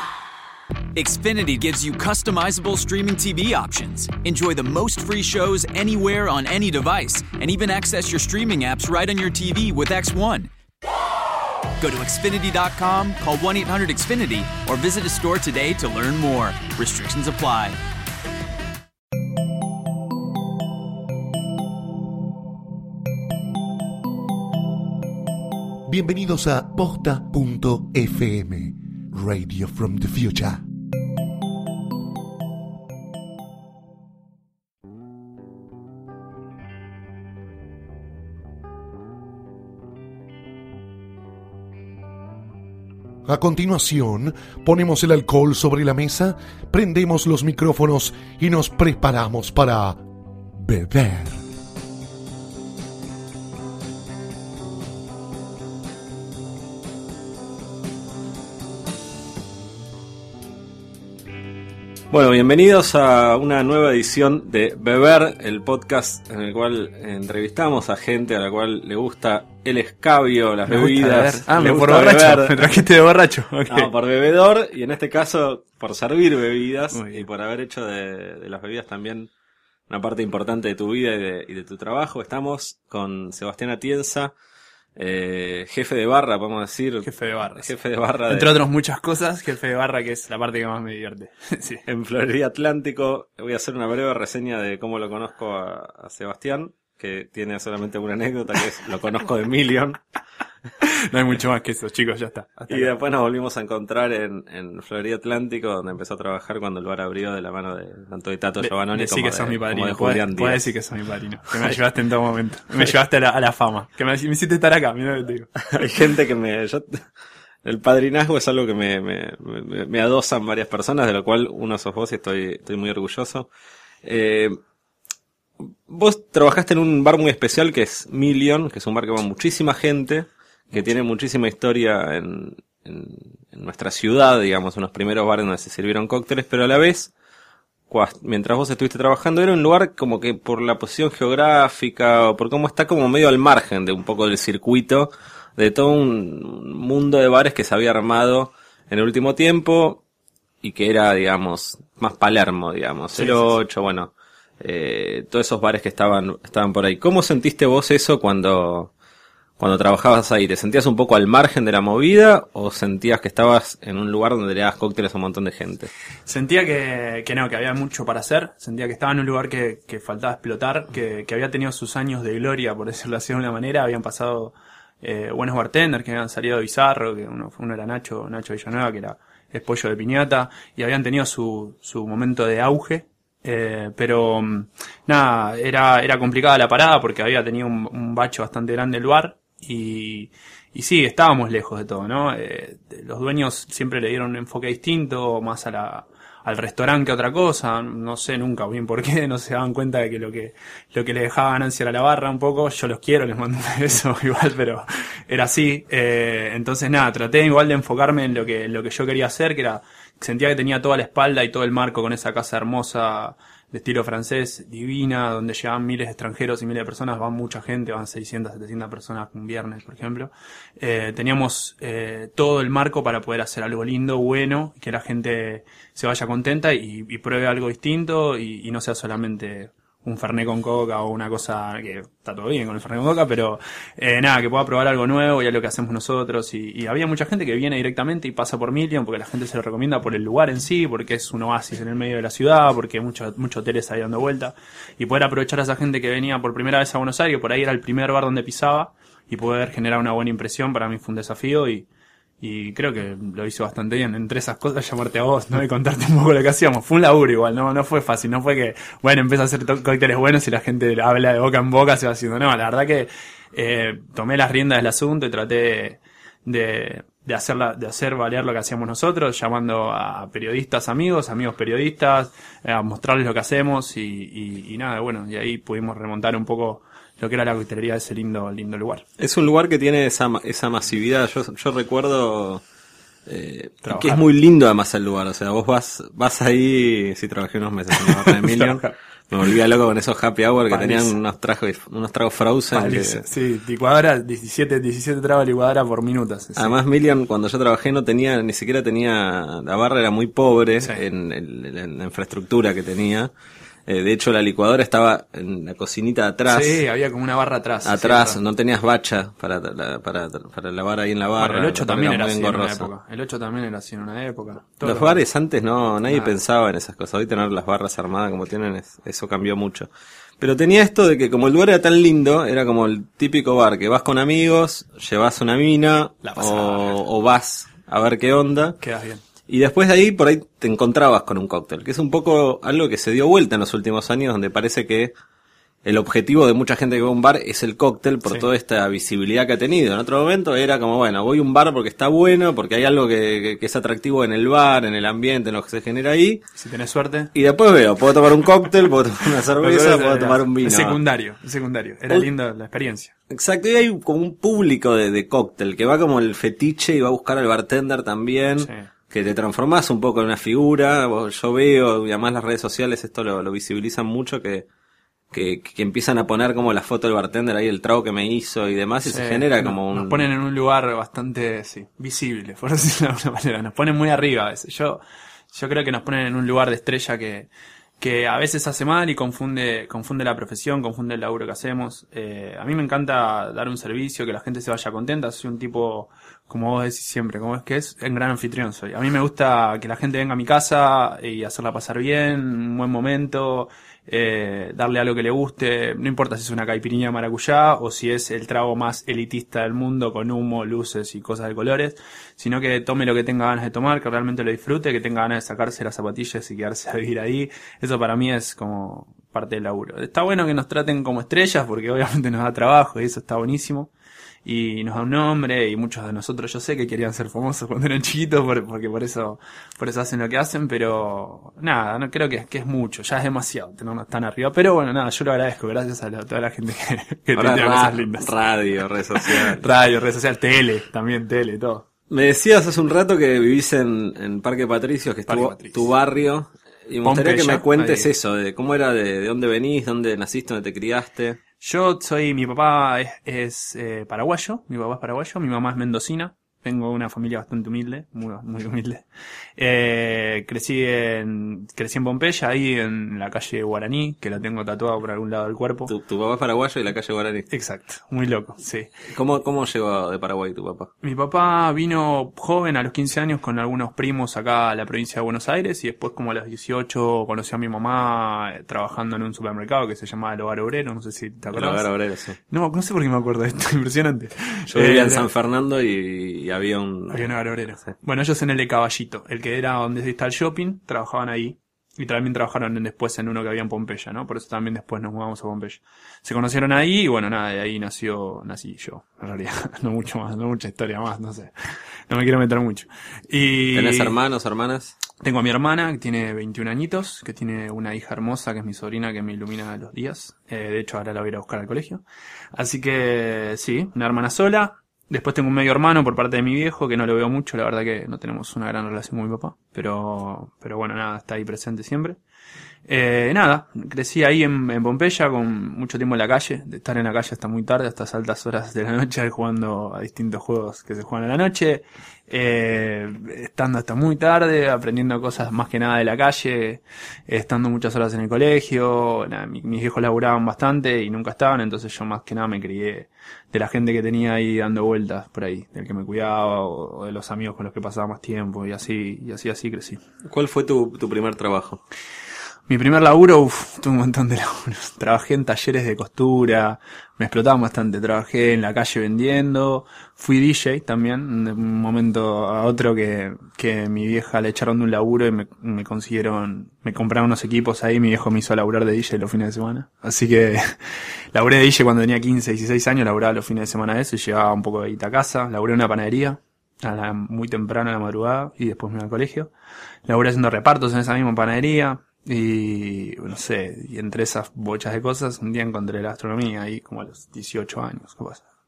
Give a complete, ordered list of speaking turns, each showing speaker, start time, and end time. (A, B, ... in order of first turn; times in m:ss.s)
0:01.0-0:10.5 A
0:11.8-0:17.8 A
0:25.9-0:30.6 B
0:43.2-0:50.0 B
0:50.6-0:51.4 B
1:02.1-1:12.7 C
1:10.7-1:13.9 D
1:13.7-1:19.3 C
1:16.9-1:17.3 D
1:19.9-1:24.3 C
1:25.0-1:28.6 C
1:27.0-1:27.7 D
1:28.3-1:31.8 D
1:31.9-1:40.0 C
1:40.8-1:43.0 D
1:42.7-1:50.7 C
1:48.6-1:55.6 D
1:55.6-1:57.0 C
1:57.6-2:03.5 C
2:04.0-2:04.6 C
2:05.9-2:17.1 C
2:17.9-2:30.0 C
2:30.6-2:38.9 C
2:33.2-2:33.6 D
2:39.6-2:45.9 C
2:46.3-4:11.9 D
4:12.4-4:39.0 D
4:39.2-4:42.6 C
4:43.3-4:53.2 C
4:43.8-4:44.2 D
4:47.9-4:49.0 D
4:50.7-4:51.2 D
4:52.7-4:56.8 D
4:56.6-5:03.3 C
5:03.9-5:06.8 C
5:06.5-5:08.4 D
5:07.8-5:12.9 C
5:11.4-5:15.2 D
5:14.8-5:19.9 C
5:16.1-5:16.3 D
5:20.4-5:28.8 C
5:26.2-5:27.0 D
5:28.8-5:29.2 D
5:29.5-5:35.1 C
5:35.8-5:46.4 C
5:46.6-5:47.3 D
5:47.3-5:51.0 C
5:49.6-5:53.1 D
5:53.3-6:04.7 C
5:58.6-5:58.9 D
6:05.3-6:10.3 C
6:09.0-6:53.9 D
6:54.4-7:08.3 D
7:07.4-7:09.6 C
7:09.2-7:11.9 D
7:12.1-7:21.4 C
7:15.3-7:15.9 D
7:17.0-7:18.1 D
7:21.6-7:29.0 D
7:29.6-7:35.9 D
7:35.9-7:37.5 C
7:37.5-7:38.9 D
7:39.1-7:40.9 C
7:41.0-7:51.9 D
7:51.5-7:52.4 C
7:52.5-7:55.3 D
7:54.7-7:57.3 C
7:57.1-8:11.5 D
8:12.1-8:14.2 D
8:13.7-8:15.0 C
8:15.2-8:32.2 D
8:32.9-9:00.0 D
9:00.3-9:01.8 C
9:02.7-9:29.5 D
9:30.1-9:38.4 D